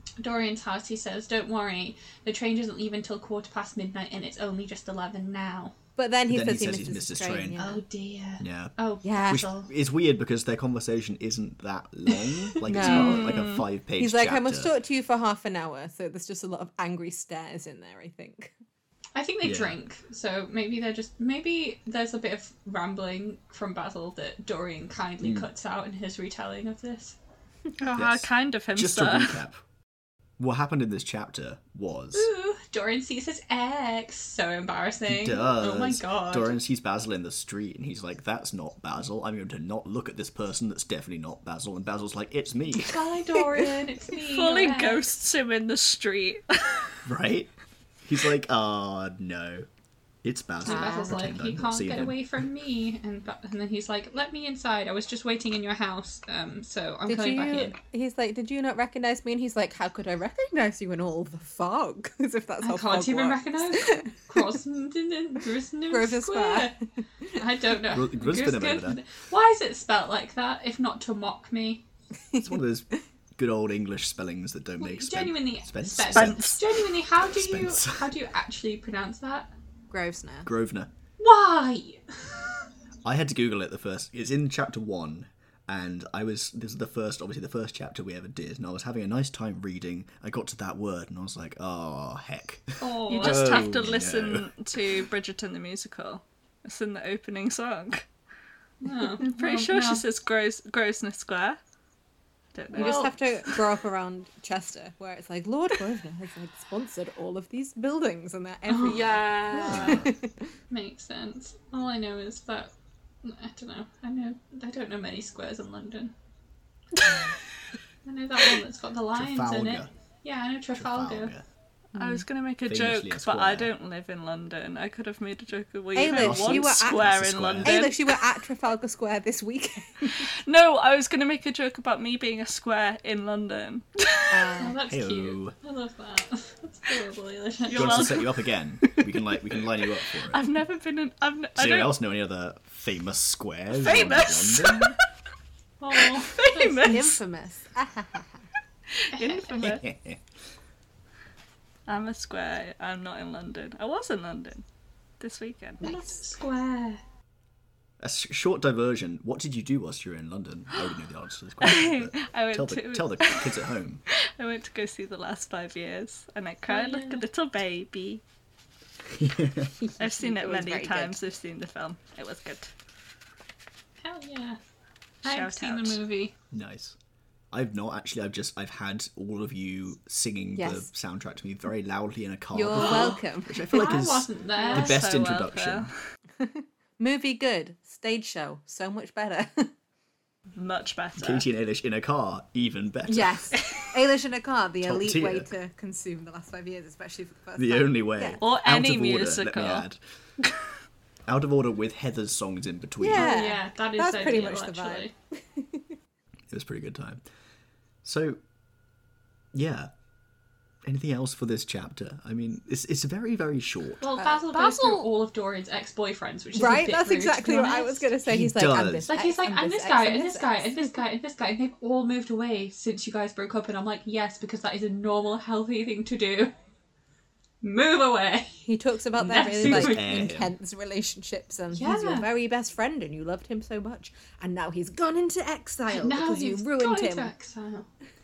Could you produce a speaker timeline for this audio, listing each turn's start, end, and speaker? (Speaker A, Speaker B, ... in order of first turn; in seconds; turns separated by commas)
Speaker A: 0.2-5.8, Speaker B: 6.0-7.8, Speaker C: 6.3-7.6, Speaker A: 7.6-9.7, Speaker C: 8.4-14.8, Speaker B: 9.0-9.5, Speaker B: 12.6-13.5, Speaker A: 12.8-13.2, Speaker D: 12.8-13.6, Speaker B: 14.0-18.5, Speaker A: 19.1-27.2, Speaker C: 19.4-19.8, Speaker C: 25.2-25.5, Speaker D: 27.8-29.4, Speaker C: 27.9-29.6, Speaker C: 30.4-32.3, Speaker A: 32.1-36.6, Speaker C: 35.1-43.0, Speaker A: 42.8-45.1, Speaker D: 44.1-47.0, Speaker C: 47.0-47.5, Speaker C: 48.0-49.7, Speaker C: 50.2-52.2, Speaker A: 50.6-57.8, Speaker B: 50.7-51.3, Speaker B: 57.1-64.5, Speaker A: 62.6-66.7, Speaker B: 65.9-66.8, Speaker A: 67.3-71.8, Speaker C: 67.9-69.0, Speaker C: 72.4-78.1, Speaker A: 74.8-79.5, Speaker D: 76.1-76.6, Speaker B: 79.9-80.5, Speaker C: 80.5-80.9, Speaker A: 81.2-82.6, Speaker C: 83.0-94.6, Speaker A: 92.8-93.7, Speaker D: 93.1-98.1, Speaker A: 98.8-100.0, Speaker D: 99.2-101.6, Speaker D: 102.5-103.5, Speaker A: 102.7-103.1, Speaker B: 102.7-110.5, Speaker A: 108.7-109.1, Speaker D: 108.8-110.0, Speaker C: 109.5-110.1, Speaker A: 110.7-112.7, Speaker A: 113.2-116.1, Speaker D: 117.0-117.3, Speaker B: 117.1-117.3, Speaker A: 118.0-121.3, Speaker C: 119.1-119.9, Speaker C: 120.8-121.5, Speaker D: 121.9-128.2, Speaker B: 122.0-122.2, Speaker C: 122.7-123.7, Speaker B: 126.0-130.3, Speaker C: 126.0-127.8, Speaker D: 130.2-134.5, Speaker B: 134.3-134.8, Speaker A: 134.6-138.2, Speaker C: 134.9-135.6, Speaker D: 137.7-138.3, Speaker C: 137.7-140.4, Speaker D: 140.3-142.0, Speaker C: 141.6-144.9, Speaker D: 143.7-145.0, Speaker A: 145.8-147.1, Speaker D: 146.0-147.2, Speaker B: 146.7-148.4, Speaker D: 148.9-149.8, Speaker A: 149.1-149.6, Speaker C: 149.6-150.2, Speaker D: 151.9-154.6, Speaker D: 155.2-156.0, Speaker B: 155.8-156.2, Speaker A: 155.8-157.0, Speaker C: 158.0-164.0, Speaker D: 161.6-168.2, Speaker A: 166.7-167.2, Speaker C: 169.1-169.8, Speaker B: 169.8-171.2, Speaker D: 170.0-172.7, Speaker A: 174.0-174.6, Speaker A: 175.2-176.3, Speaker D: 175.2-176.0, Speaker C: 176.5-177.0, Speaker C: 177.5-185.9, Speaker B: 180.6-180.9, Speaker B: 182.5-183.9, Speaker A: 182.8-183.1, Speaker A: 183.7-185.0, Speaker D: 184.6-185.9, Speaker B: 186.4-189.7, Speaker D: 190.6-191.4, Speaker C: 191.2-193.5, Speaker B: 193.1-198.4, Speaker C: 194.8-195.5, Speaker C: 197.6-200.0, Speaker D: 198.4-199.9, Speaker C: 201.3-203.4, Speaker B: 203.0-205.9, Speaker A: 203.1-205.1, Speaker C: 206.5-207.2, Speaker C: 208.0-208.4, Speaker C: 209.5-209.9, Speaker C: 210.9-214.1, Speaker A: 214.0-218.1, Speaker B: 214.2-215.1, Speaker B: 216.5-221.0, Speaker C: 218.2-219.1, Speaker A: 219.1-226.5, Speaker A: 227.6-230.3, Speaker B: 228.7-237.3, Speaker C: 229.6-230.5, Speaker A: 231.7-232.3, Speaker A: 235.9-237.9